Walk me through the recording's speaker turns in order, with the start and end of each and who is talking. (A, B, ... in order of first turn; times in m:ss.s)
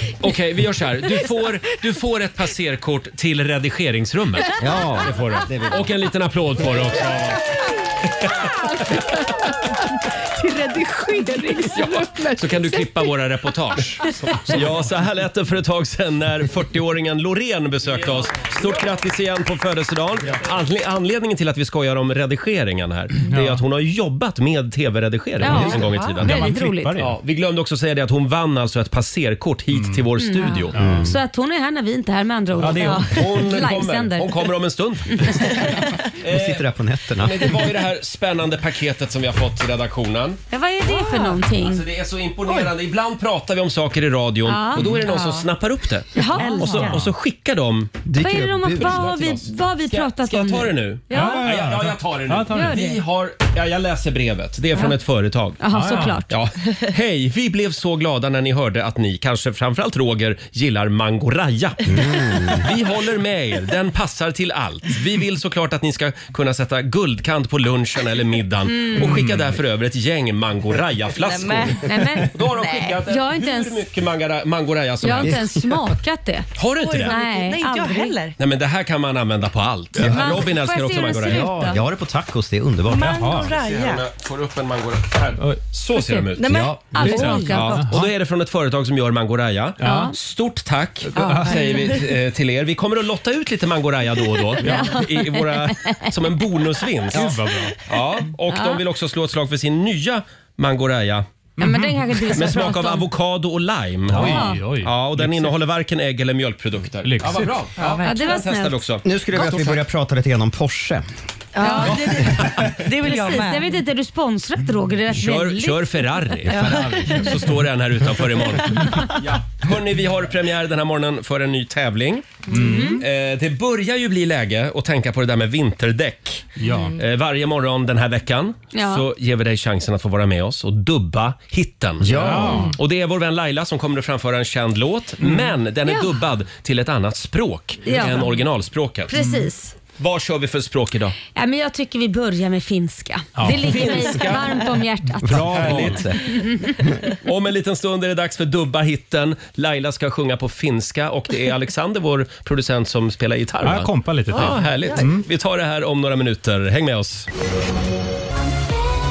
0:00.2-0:07.5 A
0:04.6-0:05.9 B
0:07.0-0:14.6 C
0:12.4-0:26.4 A
0:23.3-0:23.6 D
0:25.4-0:27.2 D
0:25.4-0:26.2 E
0:25.4-0:27.0 F
0:27.0-0:30.8 A
0:29.7-0:30.0 D
0:30.2-0:34.5 F
0:30.7-0:31.1 D
0:30.8-0:31.1 B
0:32.6-0:33.2 D
0:32.6-0:36.7 A
0:35.1-0:35.5 F
0:36.2-0:37.6 B
0:37.2-0:40.4 A
0:40.5-0:41.8 F
0:40.8-0:41.4 E
0:41.6-0:48.0 A
0:44.4-0:45.2 F
0:46.1-0:46.9 F
0:46.4-0:47.0 E
0:46.7-0:47.1 D
0:48.0-0:49.1 B
0:48.2-0:51.5 F
0:48.8-1:01.8 A
0:51.1-0:52.9 D
0:52.5-0:53.0 F
0:55.6-0:56.3 F
0:55.7-0:56.2 D
1:01.8-1:02.7 B
1:02.5-1:15.4 A
1:08.7-1:09.2 F
1:11.1-1:11.9 E
1:11.8-1:12.5 F
1:12.5-1:13.0 E
1:13.0-1:13.8 F
1:15.0-1:16.5 F
1:15.2-1:15.5 B
1:16.6-1:17.2 A
1:16.8-1:18.4 E
1:17.0-1:18.2 F
1:18.4-1:21.5 A
1:20.0-1:20.4 B
1:20.0-1:21.8 F
1:21.2-1:23.5 B
1:22.9-1:24.1 E
1:23.0-1:23.5 D
1:23.5-1:37.4 A
1:26.4-1:27.5 E
1:26.5-1:26.8 B
1:26.9-1:28.1 D
1:26.9-1:27.9 F
1:29.8-1:30.1 D
1:29.8-1:30.1 F
1:31.0-1:31.9 D
1:34.6-1:36.2 F
1:34.6-1:35.0 D
1:37.1-1:37.8 D
1:37.9-1:41.3 A
1:38.5-1:38.8 F
1:41.6-1:42.5 D
1:41.6-1:43.1 F
1:42.3-1:49.0 A
1:44.1-1:45.5 D
1:44.2-1:44.6 F
1:47.0-1:47.7 D
1:47.8-1:48.3 E
1:48.0-1:48.8 F
1:49.0-1:51.1 B
1:51.5-1:53.7 E
1:51.6-1:52.3 F
1:52.8-1:56.3 F
1:55.1-2:02.5 A
1:56.5-1:57.3 E
1:56.5-1:57.5 D
2:02.5-2:03.0 D
2:02.5-2:03.0 F
2:03.0-2:19.1 A
2:06.6-2:07.0 D
2:08.7-2:09.1 F
2:12.0-2:12.7 B
2:12.1-2:12.8 D
2:15.2-2:15.5 D
2:17.8-2:18.3 F
2:19.1-2:19.7 F
2:19.1-2:19.5 D
2:20.0-2:21.2 A
2:21.3-2:26.9 F
2:23.4-2:23.8 D
2:23.5-2:24.6 A
2:25.2-2:26.2 B
2:25.5-2:26.1 A
2:25.6-2:26.0 D
2:27.2-2:37.3 A
2:33.6-2:35.3 D